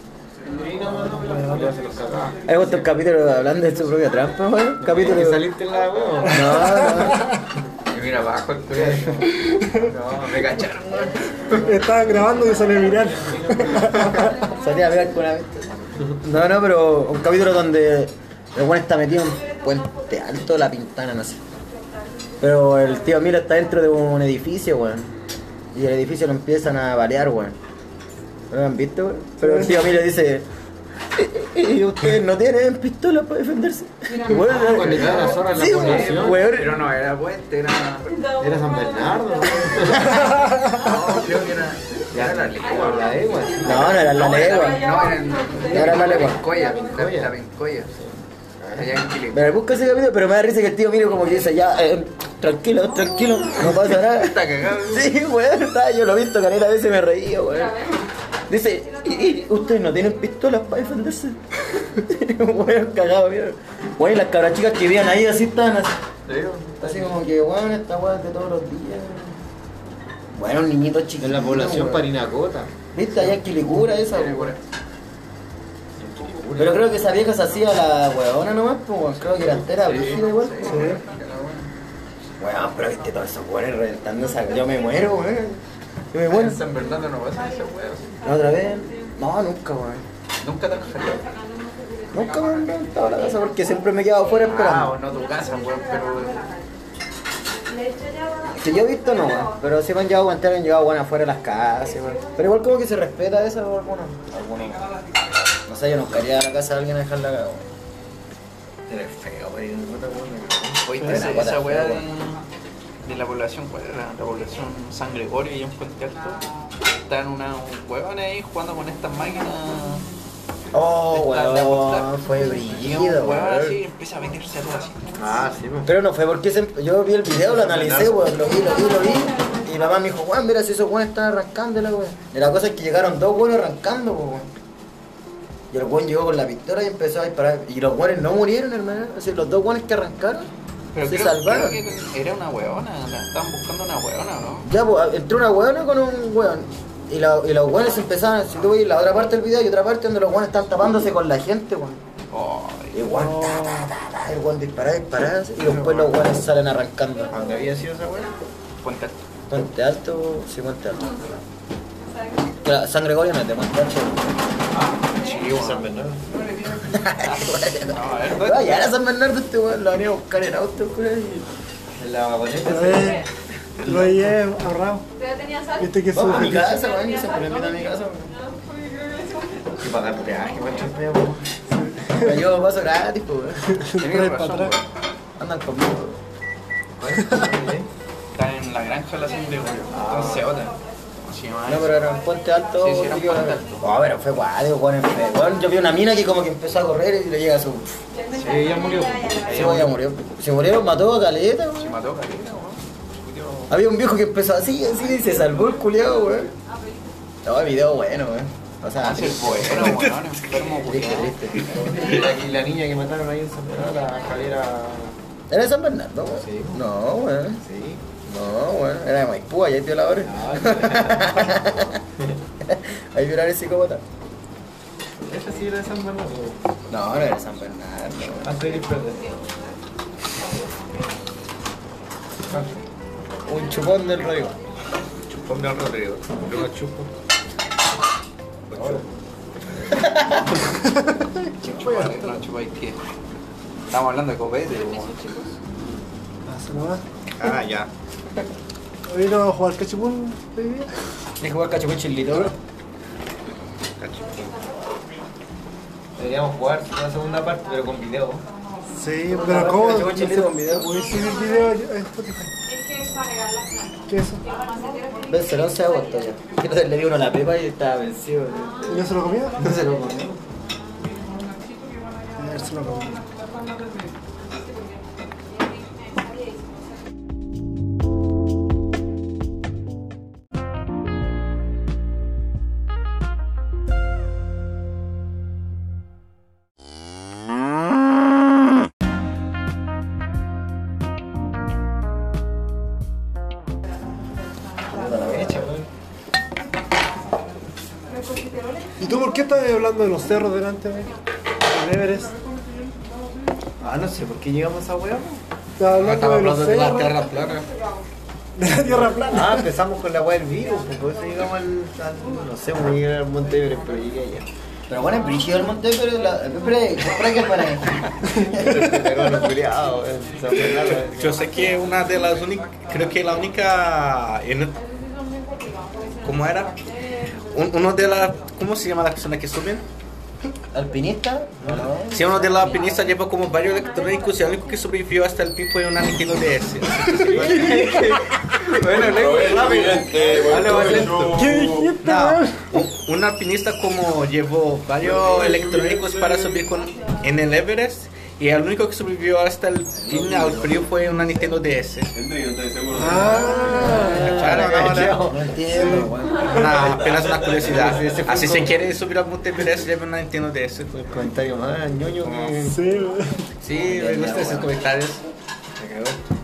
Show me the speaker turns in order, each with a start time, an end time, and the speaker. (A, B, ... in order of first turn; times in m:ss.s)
0:00.5-0:02.9 A
0:01.1-0:01.7 B
0:02.4-0:05.5 C
0:04.8-0:07.0 A
0:06.2-0:07.3 C
0:06.4-0:07.4 B
0:07.9-0:11.6 D
0:08.7-0:09.2 A
0:09.3-0:09.9 B
0:09.9-0:10.4 A
0:11.5-0:14.3 A
0:11.5-0:14.4 B
0:14.3-0:21.4 C
0:22.4-0:25.1 C
0:25.7-0:27.6 C
0:28.5-0:30.4 C
0:29.4-0:29.8 B
0:31.1-0:36.9 C
0:34.3-0:36.4 A
0:34.9-0:38.1 D
0:38.4-0:40.3 A
0:40.0-0:47.9 D
0:42.1-0:44.1 A
0:43.6-0:45.0 C
0:45.6-0:47.3 A
0:45.7-0:46.4 C
0:47.9-0:49.0 A
0:48.8-0:49.5 D
0:49.3-0:57.9 C
0:53.7-0:55.1 D
0:58.5-1:06.0 C
1:06.3-1:07.1 D
1:06.8-1:09.4 C
1:10.3-1:12.1 C
1:11.2-1:12.7 A
1:12.9-1:14.5 C
1:14.1-1:14.6 D
1:16.0-1:16.8 A
1:16.6-1:21.0 C
1:19.8-1:21.7 D
1:20.6-1:21.0 B
1:22.4-1:25.6 C
1:26.1-1:26.6 C
1:26.3-1:28.2 D
1:28.2-1:30.1 C
1:30.4-1:31.3 D
1:32.1-1:35.0 C
1:34.4-1:36.4 D
1:38.5-1:44.9 C
1:45.6-1:47.6 C
1:48.9-1:50.3 C
1:49.8-1:51.1 A
1:50.9-1:52.4 D
1:50.9-1:52.1 C
1:53.0-1:56.4 D
1:57.0-2:00.0 D
2:00.7-2:03.8 C
2:01.1-2:05.1 D
2:05.2-2:05.9 A
2:05.8-2:14.5 C
2:07.4-2:08.2 A
2:15.7-2:20.5 C
2:20.9-2:24.7 D
2:21.0-2:21.8 C
2:24.6-2:32.0 C
2:32.3-2:33.1 D
2:32.9-2:37.3 C
2:33.1-2:33.9 B
2:35.6-2:36.2 A
2:37.3-2:38.3 A
2:38.8-2:39.2 D
2:39.5-2:41.2 C
2:42.6-2:44.3 C
2:44.7-2:48.9 D
2:45.4-2:46.2 A
2:46.8-2:51.5 C
2:52.0-2:53.2 A
2:52.6-2:53.2 B
2:53.8-2:54.2 E
2:53.8-2:55.1 B
2:55.8-2:56.8 B
2:56.1-2:58.4 C
2:59.8-3:01.5 A
3:01.8-3:02.3 B
3:02.1-3:03.6 C
3:03.8-3:04.8 B
3:04.0-3:04.8 D
3:05.4-3:06.2 C
3:07.0-3:07.9 A
3:08.3-3:12.0 D
3:09.9-3:10.6 A
3:11.6-3:18.0 C
3:12.8-3:13.8 D
3:18.3-3:18.8 D
3:18.4-3:19.9 A
3:19.4-3:22.0 C
3:21.8-3:22.8 D
3:23.3-3:23.7 A
3:23.7-3:26.5 C
3:27.4-3:31.9 C
3:29.0-3:31.3 D
3:31.7-3:35.2 A
3:35.5-3:37.6 C
3:36.4-3:36.8 A
3:37.6-3:38.0 A
3:38.3-3:42.0 C
3:40.2-3:41.5 A
3:42.6-3:44.0 C
3:45.2-3:46.6 A
3:46.9-3:48.5 C
3:48.4-3:49.3 A
3:52.5-3:52.8 A
3:53.5-3:54.6 C
3:55.3-3:57.1 E
3:58.7-3:59.0 E
3:59.9-4:00.5 C
4:00.6-4:02.4 B
4:01.6-4:03.0 D
4:03.9-4:05.6 D
4:06.5-4:07.0 B
4:07.4-4:07.9 E
4:09.1-4:10.9 B
4:11.4-4:12.5 C
4:14.0-4:14.6 E
4:16.2-4:18.4 A
4:19.0-4:22.5 B
4:19.3-4:20.9 C
4:24.1-4:24.4 B
4:25.3-4:29.0 C
4:28.9-4:29.6 B
4:29.6-4:30.4 C
4:29.6-4:30.3 A
4:32.4-4:33.2 B
4:54.9-4:55.6 C
4:55.0-4:55.9 A
4:59.0-5:01.1 B
5:01.6-5:02.4 B
5:03.8-5:05.4 A
5:05.8-5:07.2 B
5:05.9-5:07.7 E
5:08.6-5:09.6 B
5:09.3-5:14.5 A
5:14.9-5:18.9 C
5:18.3-5:19.0 B
5:18.5-5:21.4 A
5:20.7-5:24.8 E
5:26.2-5:26.8 E
5:27.5-5:29.8 E
5:30.7-5:32.6 C
5:31.6-5:31.9 A
5:32.1-5:38.3 E
5:37.5-5:38.1 D
5:37.6-5:38.2 B
5:38.7-5:41.3 D
5:38.8-5:41.4 A
5:40.4-5:41.2 C
5:41.2-5:42.8 B
5:42.0-5:52.1 E
5:50.1-5:50.6 A
5:52.9-5:54.4 B
5:53.0-5:55.5 A
5:53.5-5:56.9 C
5:53.9-5:55.3 E
5:55.7-5:56.1 B
5:56.4-6:01.1 E
5:57.4-5:58.8 A
6:01.0-6:02.8 A
6:02.2-6:02.5 E
6:02.6-6:03.4 B
6:03.6-6:04.8 D
6:03.7-6:05.2 E
6:03.8-6:04.7 C
6:05.8-6:06.2 A